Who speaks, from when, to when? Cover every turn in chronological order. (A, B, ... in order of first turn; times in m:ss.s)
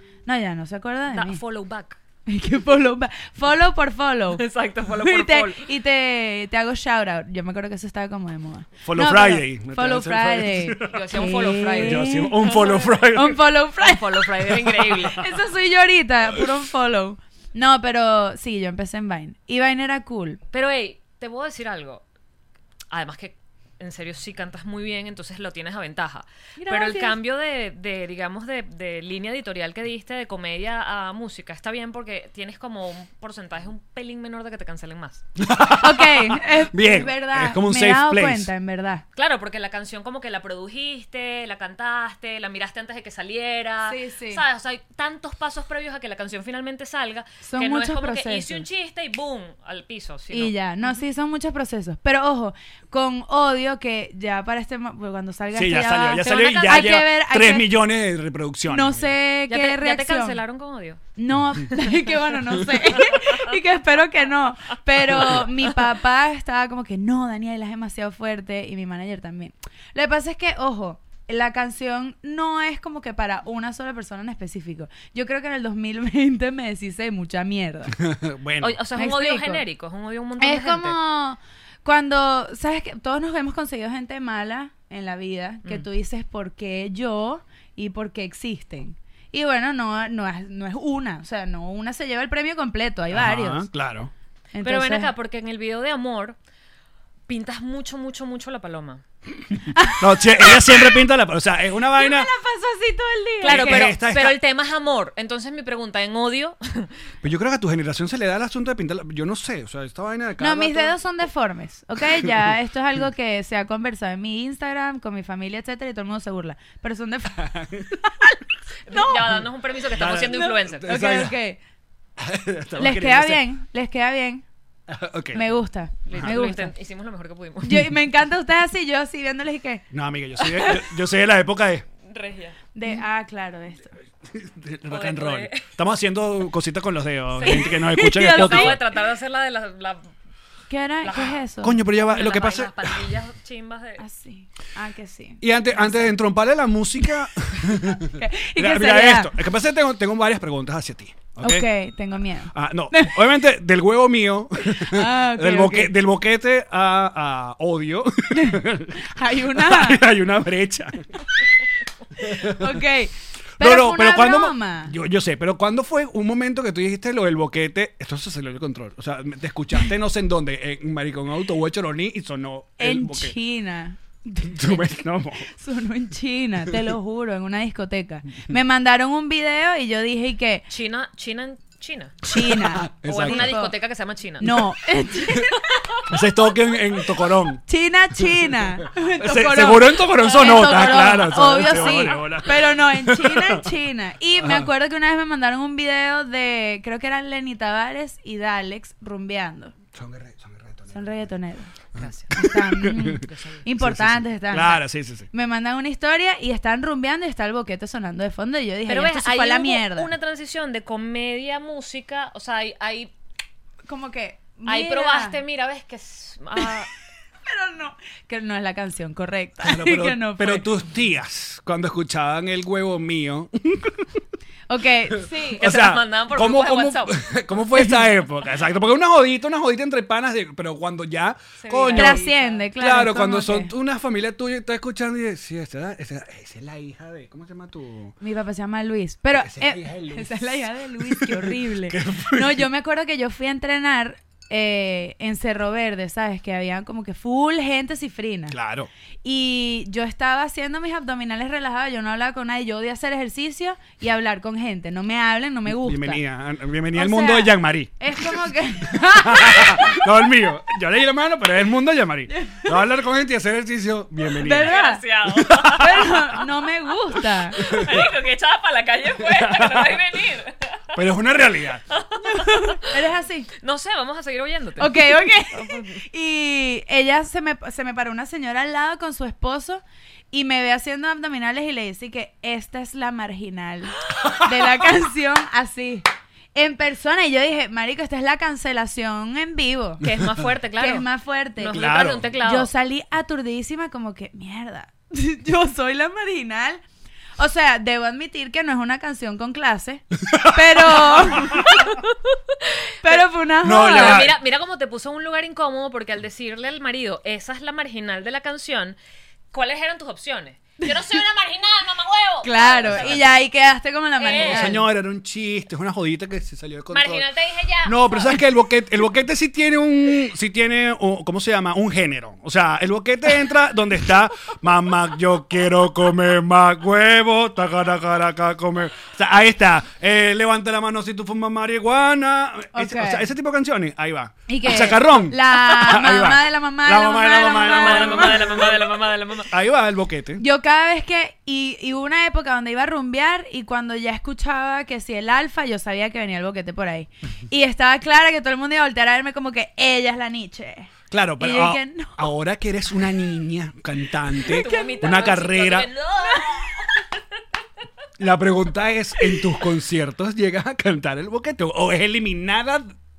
0:00.3-0:01.4 A
0:01.1-0:02.0 B
0:02.3-0:12.5 A
0:04.3-0:05.7 B
0:08.8-0:11.0 C
0:10.9-0:13.0 B
0:11.8-0:13.4 C
0:13.1-0:20.4 A
0:13.8-0:15.2 B
0:15.0-0:15.2 C
0:20.5-0:22.0 B
0:22.9-0:35.2 B
0:26.6-0:27.2 A
0:35.4-0:38.5 C
0:35.8-0:39.0 A
0:39.2-0:50.9 B
0:43.8-0:44.4 A
0:47.4-0:48.7 A
0:50.3-0:57.7 A
0:55.5-0:59.1 C
0:56.4-0:57.0 B
0:58.7-1:00.4 A
0:59.5-1:01.0 B
1:01.2-1:18.0 A
1:02.9-1:03.5 B
1:18.0-1:18.8 C
1:18.6-1:21.0 B
1:19.0-1:19.6 A
1:20.4-1:33.7 A
1:33.1-1:34.1 C
1:34.5-1:35.1 A
1:34.6-1:36.4 B
1:37.3-1:39.0 B
1:39.7-1:41.0 A
1:39.9-1:42.3 C
1:41.9-1:43.9 A
1:43.4-1:46.9 B
1:43.4-1:44.4 C
1:47.2-1:51.0 C
1:50.4-1:57.5 A
1:57.4-1:58.0 C
1:58.1-1:58.4 A
1:58.9-2:00.9 B
1:58.9-1:59.4 A
1:59.9-2:01.4 C
2:00.3-2:01.6 A
2:02.2-2:03.4 C
2:02.8-2:04.4 A
2:04.9-2:05.4 C
2:05.3-2:06.7 A
2:06.1-2:08.0 B
2:07.6-2:09.8 A
2:09.9-2:11.9 C
2:12.1-2:12.6 B
2:12.7-2:13.9 A
2:14.3-2:18.8 C
2:14.9-2:15.7 B
2:17.4-2:20.1 B
2:17.4-2:18.8 A
2:20.7-2:21.8 A
2:21.0-2:24.0 B
2:21.6-2:23.1 C
2:24.0-2:26.1 A
2:25.4-2:31.7 C
2:27.8-2:29.3 A
2:31.4-2:33.2 A
2:32.5-2:41.2 C
2:34.6-2:35.9 A
2:38.3-2:40.0 A
2:42.2-2:42.8 C
2:42.3-2:45.0 A
2:43.6-2:53.4 C
2:52.8-2:54.8 A
2:54.5-2:55.5 C
2:55.5-3:00.6 A
3:00.7-3:02.2 B
3:02.2-3:03.8 A
3:02.3-3:03.6 C
3:03.0-3:04.6 B
3:04.4-3:05.6 A
3:06.1-3:07.6 C
3:07.7-3:19.7 A
3:08.2-3:13.7 C
3:10.3-3:11.2 B
3:14.4-3:14.7 C
3:19.9-3:21.3 C
3:20.9-3:21.7 A
3:22.0-3:22.3 B
3:22.0-3:23.3 C
3:22.3-3:30.1 A
3:23.2-3:23.6 B
3:23.8-3:25.3 C
3:28.9-3:33.1 B
3:33.9-3:35.4 A
3:34.7-3:36.9 B
3:36.6-3:36.8 A
3:37.4-3:40.7 A
3:39.6-3:44.1 C
3:44.7-3:45.6 A
3:45.6-3:58.2 C
3:45.6-3:47.4 B
3:51.6-3:52.6 B
3:51.9-3:53.7 A
3:58.2-4:08.6 A
3:59.3-4:02.6 C
4:08.5-4:08.9 C
4:09.2-4:16.2 A
4:15.7-4:24.7 C
4:16.9-4:20.0 A
4:22.3-4:22.8 A
4:24.4-4:25.0 A
4:24.6-4:26.3 B
4:25.3-4:26.1 C
4:25.7-4:27.7 A
4:27.5-4:31.0 B
4:27.6-4:28.0 C
4:29.2-4:30.0 C
4:31.0-4:31.8 C
4:31.9-4:33.0 B
4:32.2-4:33.5 A
4:33.6-4:36.0 B
4:34.8-4:50.0 A
4:50.0-4:51.1 B
4:50.8-4:51.8 A
4:51.6-4:52.7 B
4:51.7-4:52.3 C
4:52.4-4:56.8 A
4:57.4-5:01.9 A
5:00.3-5:01.7 C
5:01.7-5:03.2 B
5:03.0-5:04.3 A
5:03.6-5:04.4 C
5:03.8-5:09.0 B
5:09.5-5:13.3 B
5:12.4-5:14.8 A
5:12.9-5:13.3 C
5:14.2-5:14.8 B
5:14.3-5:17.3 C
5:16.9-5:18.4 B
5:17.8-5:38.9 C
5:32.7-5:33.3 A
5:34.5-5:38.7 A
5:37.6-5:39.5 B
5:39.5-5:40.4 C
5:40.4-5:52.2 A
5:51.1-5:55.9 C
5:54.4-5:57.0 B
5:58.2-6:02.9 C